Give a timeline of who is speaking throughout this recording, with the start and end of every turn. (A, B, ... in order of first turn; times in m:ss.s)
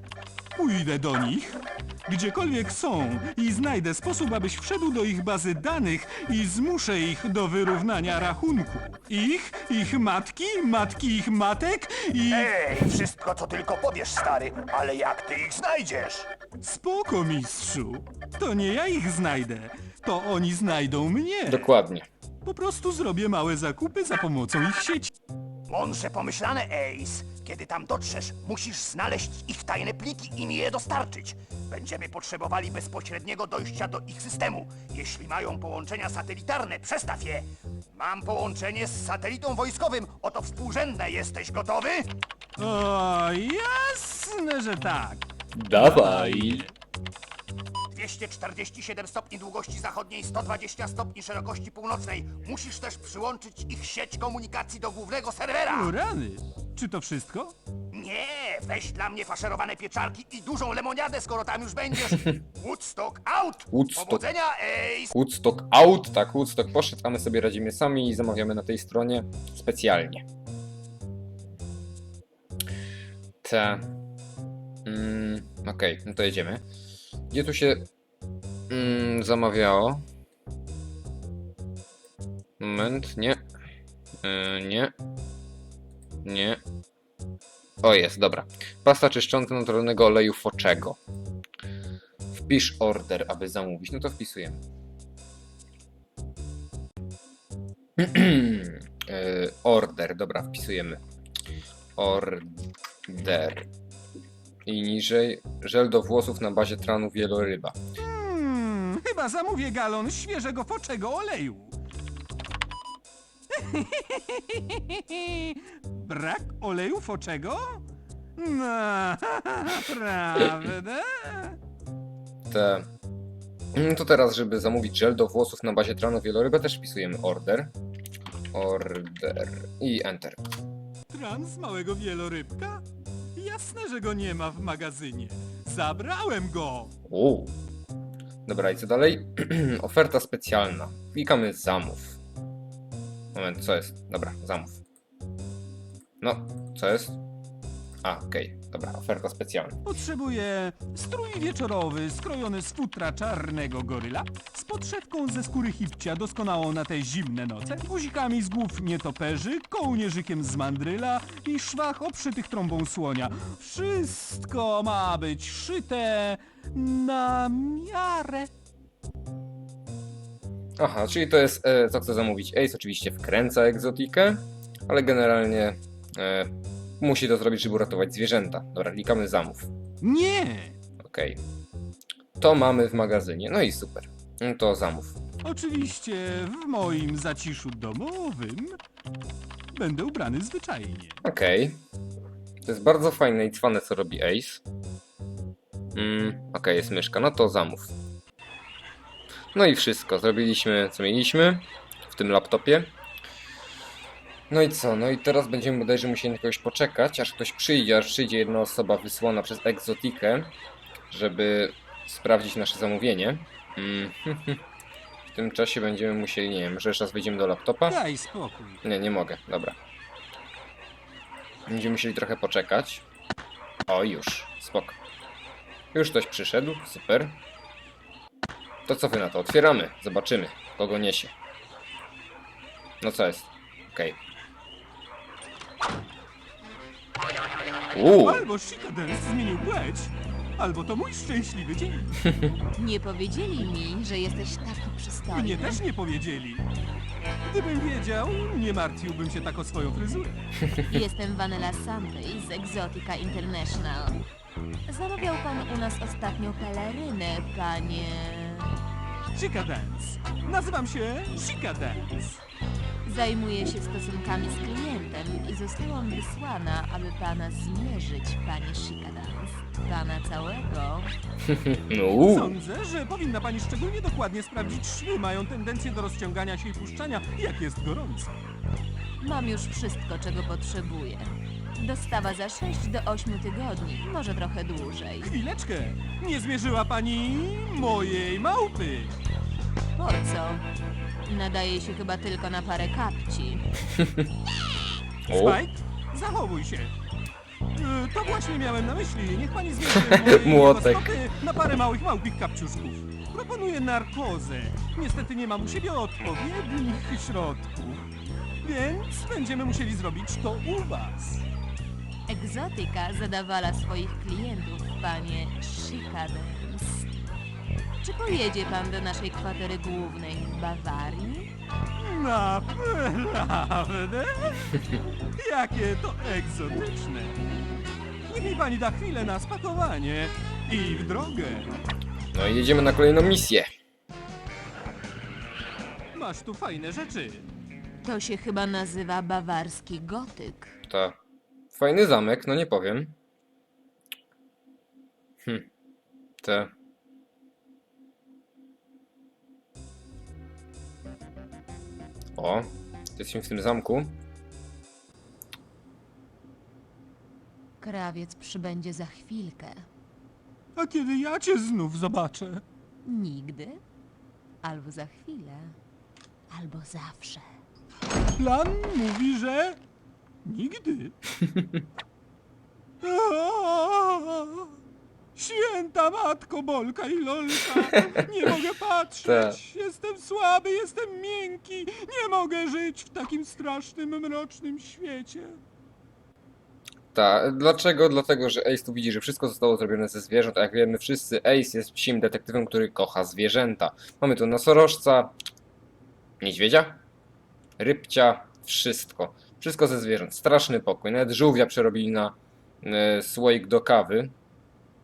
0:00.6-0:12.5 A
0:12.3-0:16.3 B
0:16.6-0:21.7 A
0:21.5-0:22.1 C
0:22.4-0:25.1 A
0:25.7-0:42.1 B
0:42.6-0:46.7 A
0:45.5-0:46.7 C
0:47.9-0:55.9 B
0:55.7-0:57.6 A
0:57.9-1:05.1 B
1:03.7-1:04.2 C
1:05.1-1:10.2 C
1:13.4-1:13.8 C
1:14.8-1:16.6 C
1:17.3-1:17.9 C
1:18.7-1:20.0 C
1:22.6-1:23.4 C
1:24.2-1:24.9 C
1:26.2-1:26.6 C
1:27.8-1:31.0 C
1:32.4-1:34.6 C
1:38.0-1:41.0 C
1:42.0-1:43.7 C
1:44.7-1:47.8 C
1:48.0-1:51.8 A
1:53.5-1:57.8 A
1:58.4-2:01.6 A
2:02.5-2:02.9 C
2:03.7-2:07.7 C
2:08.5-2:10.4 C
2:11.1-2:12.8 A
2:13.4-2:16.9 A
2:17.1-2:17.5 C
2:18.4-2:22.2 C
2:23.3-2:24.8 C
2:26.2-2:27.2 C
2:28.0-2:29.8 C
2:29.8-2:48.5 A
2:50.8-2:59.7 C
3:00.0-3:00.8 A
3:01.0-3:01.4 C
3:02.4-3:05.2 C
3:05.4-3:08.8 A
3:09.7-3:11.2 A
3:11.2-3:11.8 C
3:12.6-3:14.6 C
3:16.0-3:17.9 C
3:19.6-3:22.9 C
3:24.5-3:30.5 C
3:31.1-3:34.6 C
3:35.3-3:38.0 C
3:37.9-3:38.8 A
3:38.8-3:39.8 C
3:41.7-3:43.0 C
3:43.9-3:45.0 C
3:45.9-3:47.4 C
3:48.9-3:51.3 C
3:53.0-3:54.2 C
3:57.9-3:58.5 C
3:58.1-4:02.4 A
4:02.8-4:05.8 D
4:05.3-4:06.7 A
4:07.5-4:10.8 A
4:10.8-4:14.2 D
4:14.9-4:18.8 D
4:19.3-4:22.4 A
4:23.0-4:31.1 D
4:31.5-4:32.6 C
4:32.2-4:38.4 A
4:39.2-4:45.3 D
4:45.2-4:49.2 A
4:50.0-4:50.7 D
4:51.2-4:53.7 D
4:55.3-4:55.6 C
4:55.3-4:56.9 A
4:57.8-5:08.1 A
5:00.1-5:01.2 C
5:08.6-5:11.5 A
5:12.3-5:17.1 D
5:18.0-5:21.5 D
5:22.0-5:27.4 A
5:28.3-5:31.8 A
5:32.3-5:33.7 C
5:36.1-5:37.5 A
5:38.0-5:40.8 D
5:40.9-5:41.2 C
5:41.7-5:43.2 C
5:46.4-5:46.7 C
5:52.4-5:54.2 C
5:57.8-5:59.9 D
6:00.8-6:02.6 A
6:03.0-6:03.8 D
6:04.6-6:05.8 D
6:06.5-6:07.5 D
6:08.4-6:09.8 A
6:10.4-6:11.2 A
6:11.4-6:11.8 C
6:13.0-6:14.8 A
6:15.4-6:25.6 A
6:19.2-6:19.6 C
6:27.1-6:35.3 C
6:36.4-6:37.0 C
6:37.8-6:44.3 C